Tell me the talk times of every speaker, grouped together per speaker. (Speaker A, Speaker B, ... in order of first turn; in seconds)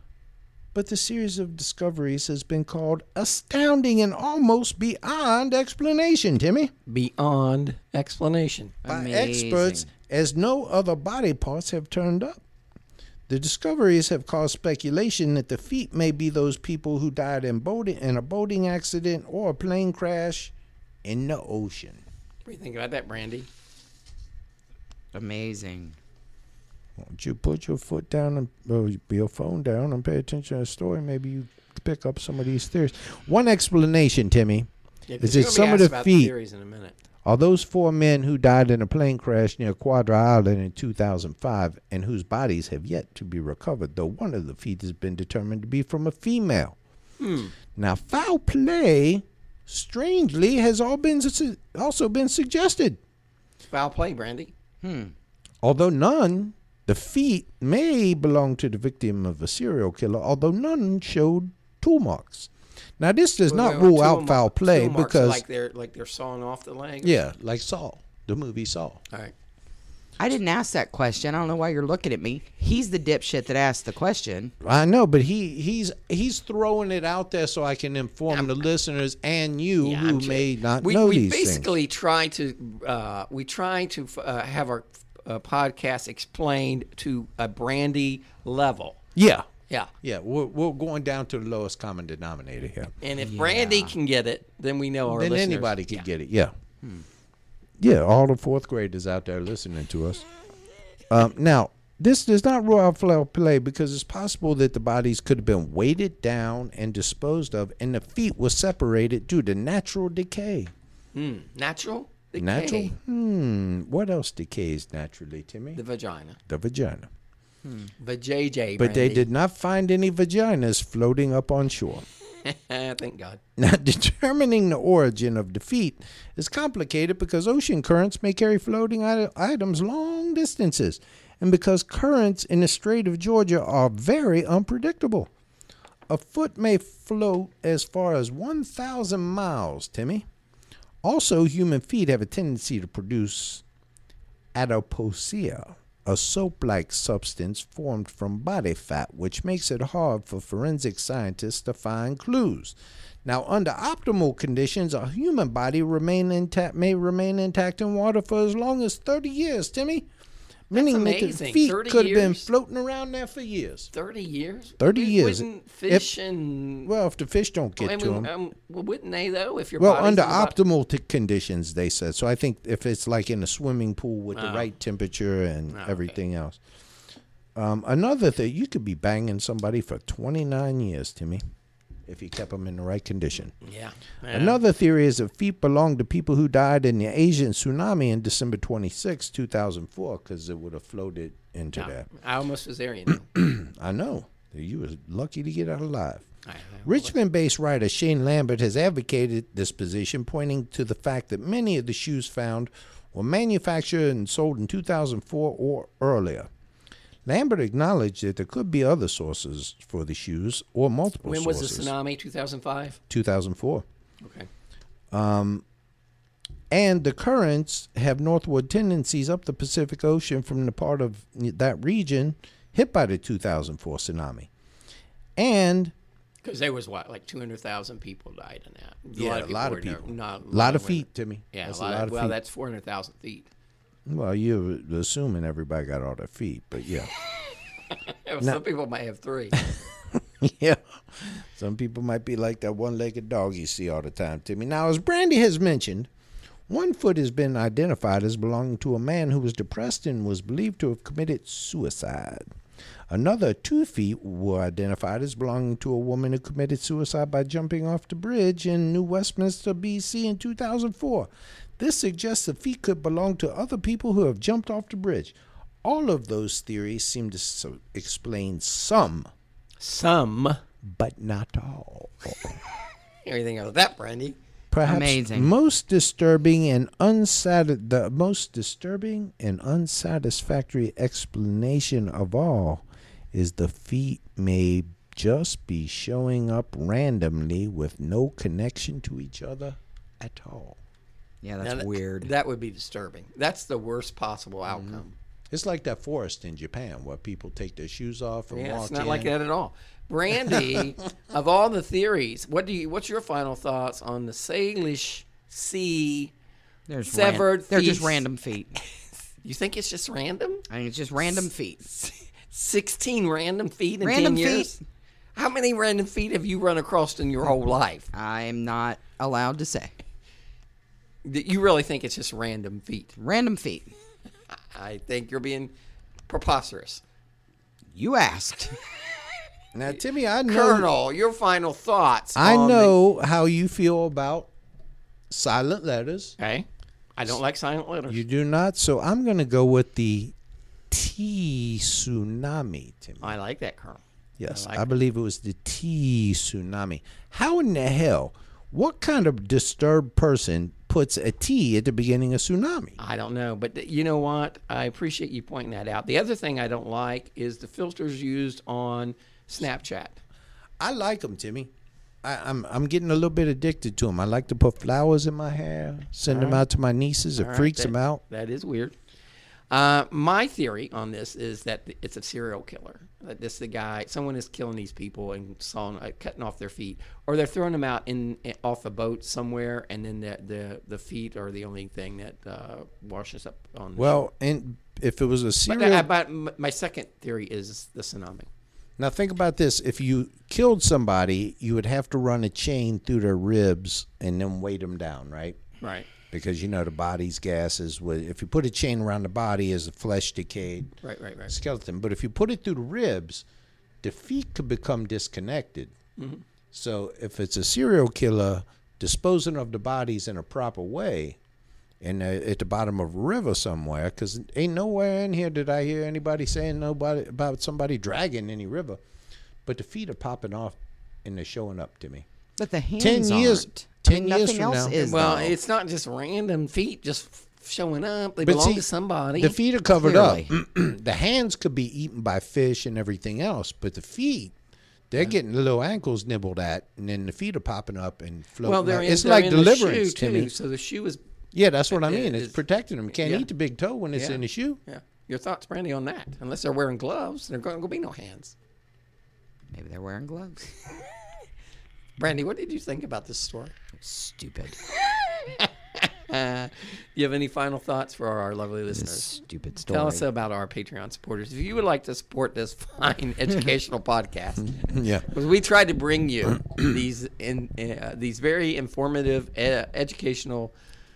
Speaker A: 0.7-6.7, 8.8-12.4, 13.3-20.5, 21.0-22.0, 27.0-34.7, 35.2-36.3, 37.2-46.8, 47.7-53.0, 55.6-65.4, 67.0-69.0, 74.6-81.7, 89.1-89.5, 90.0-92.9, 95.1-96.5, 97.8-100.2, 101.1-110.7, 112.4-115.8, 116.5-117.1, 118.8-122.0, 123.6-135.3, 136.1-140.2, 141.0-143.6, 144.5-160.1, 160.7-163.9, 164.8-166.1, 166.8-168.3, 169.8-176.6, 177.6-181.4, 182.1-183.5, 184.3-192.1, 193.2-196.3, 196.8-206.5, 207.2-211.9, 213.1-213.8, 215.1-215.6, 216.7-224.5, 225.4-225.9, 229.1-232.3, 234.1-237.1, 239.6-246.1, 246.7-252.4, 253.1-269.3, 270.8-272.6, 274.7-290.8, 294.7-295.0, 295.5-299.3, 329.7-330.9, 332.4-334.5, 335.3-336.4, 338.1-340.3, 340.9-343.3, 344.4-353.0, 360.8-361.7, 362.2-368.2, 384.0-386.1, 389.0-395.6, 396.3-400.9, 401.5-403.4, 404.0-405.9, 406.7-411.4, 412.0-419.0, 419.6-422.2, 423.0-425.0, 428.4-434.5, 435.1-440.5, 441.5-444.8, 464.8-465.3
Speaker B: 6.9-8.7, 22.4-23.5, 35.1-36.9, 47.2-47.5, 53.7-54.5, 63.5-67.2, 78.3-78.6, 79.8-89.0, 93.0-96.1, 111.1-112.9, 115.7-116.4, 118.0-119.2, 122.4-123.4, 160.7-162.5, 163.9-166.9, 167.8-170.6, 174.3-174.7, 175.7-176.2, 183.6-184.6, 191.7-193.3, 196.4-197.1, 211.2-213.0, 214.2-214.5, 226.4-233.5, 237.9-239.7, 269.8-270.6, 273.2-274.4, 291.6-295.1, 298.5-306.3, 307.1-308.2, 309.4-310.6, 312.5-314.8, 315.4-318.1, 321.2-323.1, 324.7-325.7, 326.3-327.0, 329.9-332.9, 336.4-338.2, 343.2-344.9, 353.0-360.2, 366.3-366.6, 367.4-368.9, 369.7-384.3, 385.7-388.5, 395.8-396.1, 401.0-401.5, 406.2-406.4, 425.0-429.6, 438.6-441.2, 441.9-442.6, 443.1-443.5, 444.1-448.5, 452.2-453.7, 455.5-470.7
Speaker C: 8.8-9.9, 25.1-26.0, 54.8-55.1, 70.2-74.5, 93.2-93.9, 117.6-117.9, 274.8-275.5, 291.4-292.3, 306.9-308.7, 310.7-312.1, 314.0-314.8, 318.1-319.9, 323.1-323.9, 327.9-328.8, 422.6-425.6, 429.9-430.5, 449.7-450.7, 454.0-454.8, 458.9-460.2